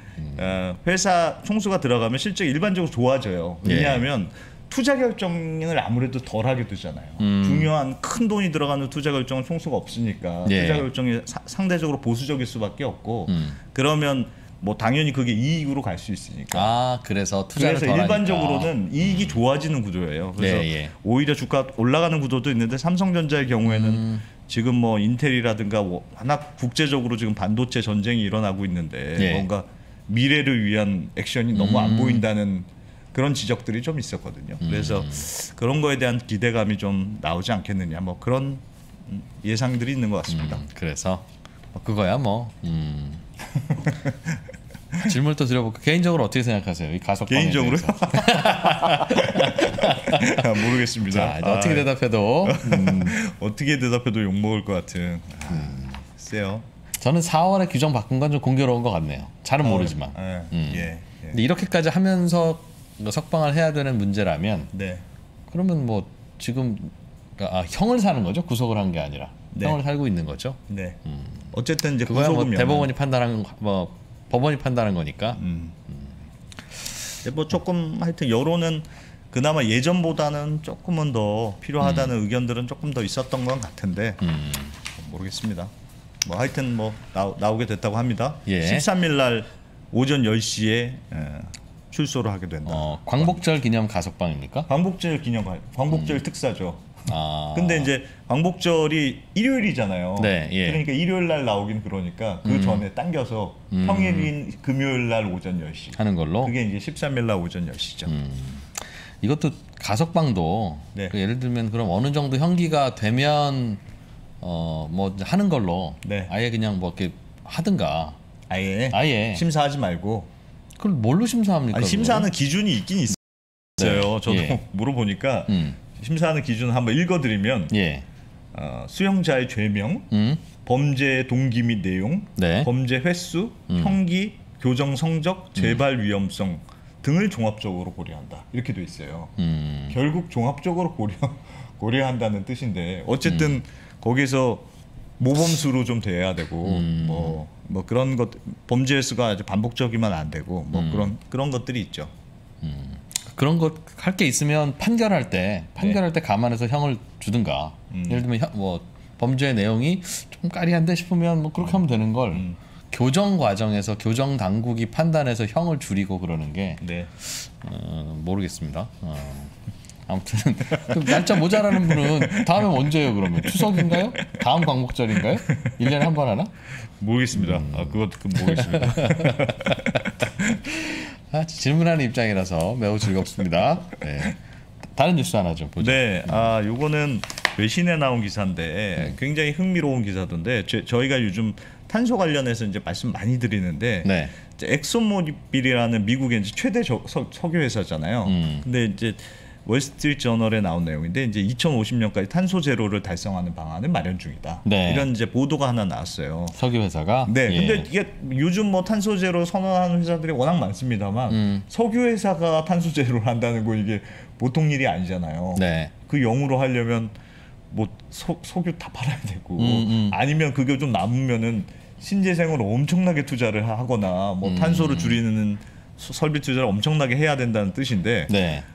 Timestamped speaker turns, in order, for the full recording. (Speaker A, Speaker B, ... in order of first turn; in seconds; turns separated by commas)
Speaker A: 0.3-16.7, Speaker B: 3.6-4.0, Speaker B: 7.2-7.7, Speaker B: 10.4-10.9, Speaker B: 13.3-13.6, Speaker B: 16.5-19.4, Speaker A: 17.5-40.6, Speaker B: 20.4-20.9, Speaker B: 23.7-24.2, Speaker B: 29.2-29.5, Speaker B: 31.5-32.2, Speaker B: 34.6-35.2, Speaker B: 40.3-43.2, Speaker A: 43.8-44.4, Speaker B: 45.0-53.1, Speaker A: 47.3-56.6, Speaker B: 55.5-56.0, Speaker B: 57.0-64.7, Speaker A: 59.6-61.4, Speaker A: 64.7-65.0, Speaker B: 65.5-71.5, Speaker A: 69.5-69.8, Speaker A: 70.7-71.0, Speaker A: 71.5-72.9, Speaker B: 72.1-76.1, Speaker A: 75.4-75.8, Speaker A: 77.2-84.2, Speaker B: 81.8-82.1, Speaker B: 84.2-84.8, Speaker A: 84.8-85.7, Speaker A: 86.2-93.4, Speaker B: 88.5-88.8, Speaker B: 92.7-94.7, Speaker A: 94.7-108.1, Speaker B: 95.9-96.2, Speaker B: 97.1-97.9, Speaker B: 100.2-100.8, Speaker B: 102.4-102.9, Speaker B: 103.7-104.3, Speaker B: 106.0-106.5, Speaker B: 108.1-113.8, Speaker B: 114.4-118.2, Speaker A: 116.0-116.3, Speaker A: 118.5-120.3, Speaker B: 118.9-119.4, Speaker B: 120.8-122.3, Speaker A: 121.7-127.8, Speaker B: 123.8-124.6, Speaker B: 125.5-125.8, Speaker B: 127.7-128.0, Speaker A: 128.5-139.3, Speaker B: 130.1-130.4, Speaker B: 132.3-132.7, Speaker B: 133.7-134.0, Speaker B: 139.4-139.9, Speaker A: 139.9-144.7, Speaker B: 143.2-143.6, Speaker A: 145.2-152.1, Speaker B: 146.6-147.4, Speaker B: 150.7-151.1, Speaker B: 152.6-169.5, Speaker A: 157.9-158.2, Speaker A: 161.6-162.6, Speaker A: 166.8-167.1, Speaker B: 170.1-176.5, Speaker A: 170.9-172.7, Speaker A: 173.4-174.1, Speaker A: 177.0-180.6, Speaker B: 177.3-179.9, Speaker B: 180.8-184.4, Speaker B: 184.9-186.5, Speaker A: 185.8-206.6, Speaker B: 194.0-194.3, Speaker B: 198.2-198.7, Speaker B: 204.6-205.1, Speaker B: 206.5-207.9, Speaker A: 207.2-217.1, Speaker B: 211.3-211.6, Speaker B: 215.6-215.9, Speaker A: 217.7-228.3, Speaker B: 219.6-220.2, Speaker B: 224.4-225.2, Speaker B: 228.3-228.7